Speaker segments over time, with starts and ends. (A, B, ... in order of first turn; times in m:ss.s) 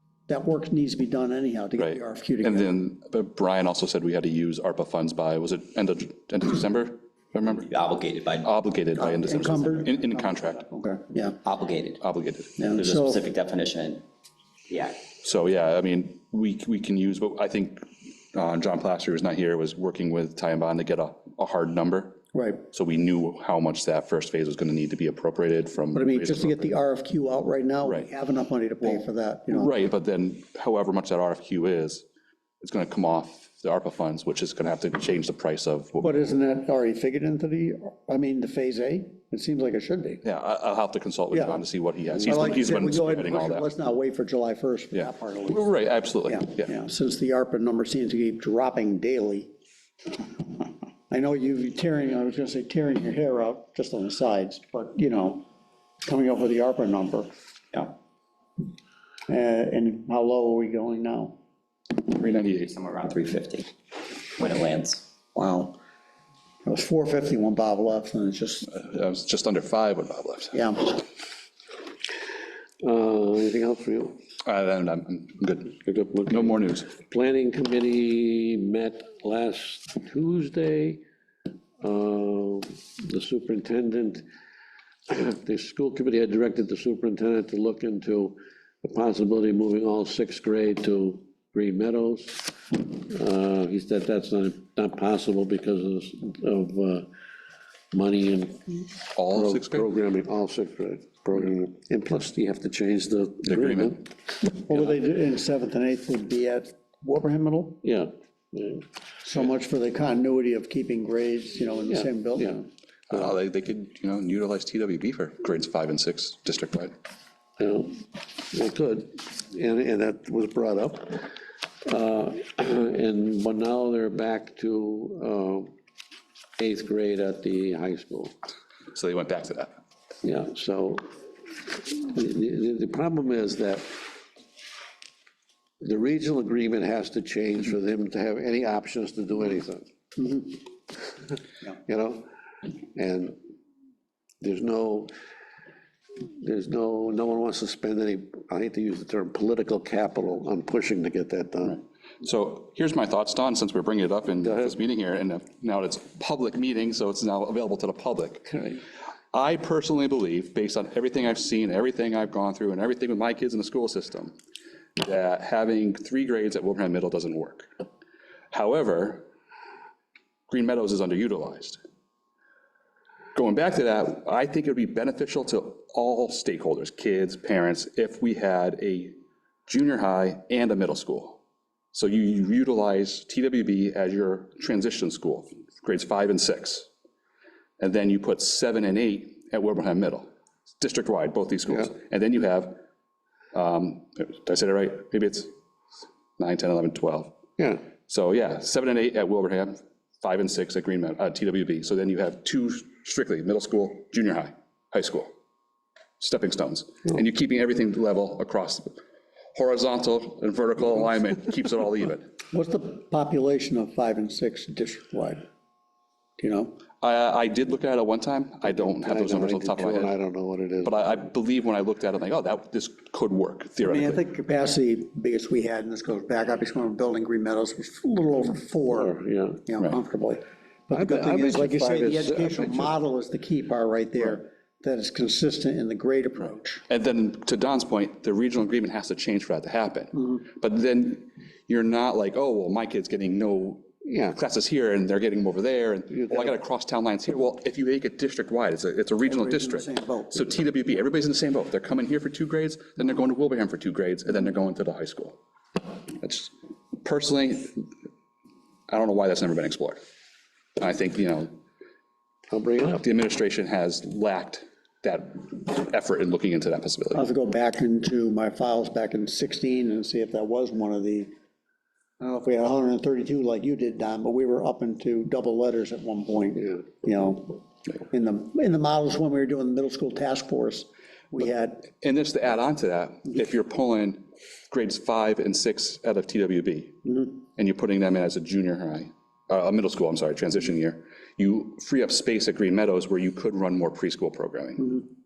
0:00.3-0:02.7 A
0:01.8-0:07.7 B
0:07.6-0:09.8 C
0:08.4-0:10.6 B
0:09.0-0:11.4 A
0:11.4-0:12.0 C
0:12.0-0:12.6 B
0:12.6-0:13.2 A
0:12.7-0:14.0 C
0:14.7-0:15.0 C
0:15.2-0:26.7 B
0:22.3-0:22.6 A
0:25.9-0:29.8 A
0:29.5-0:32.0 B
0:32.6-0:36.2 B
0:36.0-0:40.2 A
0:40.2-0:43.7 B
0:41.3-0:41.6 A
0:42.2-0:45.7 A
0:44.9-0:46.7 B
0:46.2-0:49.5 A
0:51.1-0:55.4 A
0:56.0-0:57.3 A
0:59.3-1:01.4 A
1:02.1-1:02.7 B
1:02.5-1:03.7 C
1:04.2-1:05.0 C
1:05.3-1:05.8 A
1:06.6-1:08.7 A
1:08.6-1:10.6 B
1:10.5-1:11.0 A
1:12.8-1:14.2 D
1:14.4-1:15.8 B
1:15.7-1:21.0 D
1:16.3-1:16.9 B
1:21.8-1:24.2 D
1:25.1-1:37.1 D
1:37.9-1:44.0 D
1:39.1-1:39.9 B
1:43.4-1:44.0 B
1:44.4-1:47.8 A
1:47.8-1:48.8 D
1:49.2-1:52.7 A
1:51.9-1:52.5 D
1:53.1-1:56.9 B
1:57.6-2:01.3 D
2:01.8-2:05.7 D
2:06.6-2:08.3 D
2:08.9-2:09.7 B
2:10.2-2:11.0 D
2:11.6-2:14.0 D
2:15.8-2:20.5 D
2:21.7-2:22.2 D
2:22.9-2:23.3 D
2:24.4-2:25.1 D
2:26.2-2:31.8 D
2:31.7-2:38.6 B
2:34.4-2:34.7 D
2:39.3-2:44.3 B
2:45.0-2:47.7 B
2:48.5-2:49.2 B
2:50.5-2:51.8 B
2:53.3-2:59.2 B
2:59.7-3:01.4 B
3:01.9-3:06.9 B
3:07.8-3:10.3 B
3:10.8-3:12.8 B
3:13.5-3:15.5 B
3:16.4-3:17.3 B
3:17.6-3:17.8 D
3:18.0-3:25.3 B
3:26.2-3:29.0 B
3:29.5-3:32.3 B
3:32.5-3:35.4 A
3:36.4-3:36.8 A
3:37.0-3:40.1 B
3:38.6-3:41.1 D
3:40.8-3:44.2 B
3:43.8-3:49.2 A
3:48.9-3:49.6 D
3:49.7-3:56.8 A
3:50.9-3:52.9 D
3:56.9-4:17.8 B
4:04.0-4:04.4 D
4:06.2-4:06.5 D
4:09.2-4:10.5 A
4:18.9-4:20.0 B
4:20.8-4:21.5 B
4:22.5-4:23.0 D
4:23.0-4:27.2 B
4:27.1-4:31.3 A
4:32.2-4:41.9 A
4:42.0-4:54.9 B
4:54.8-4:55.1 A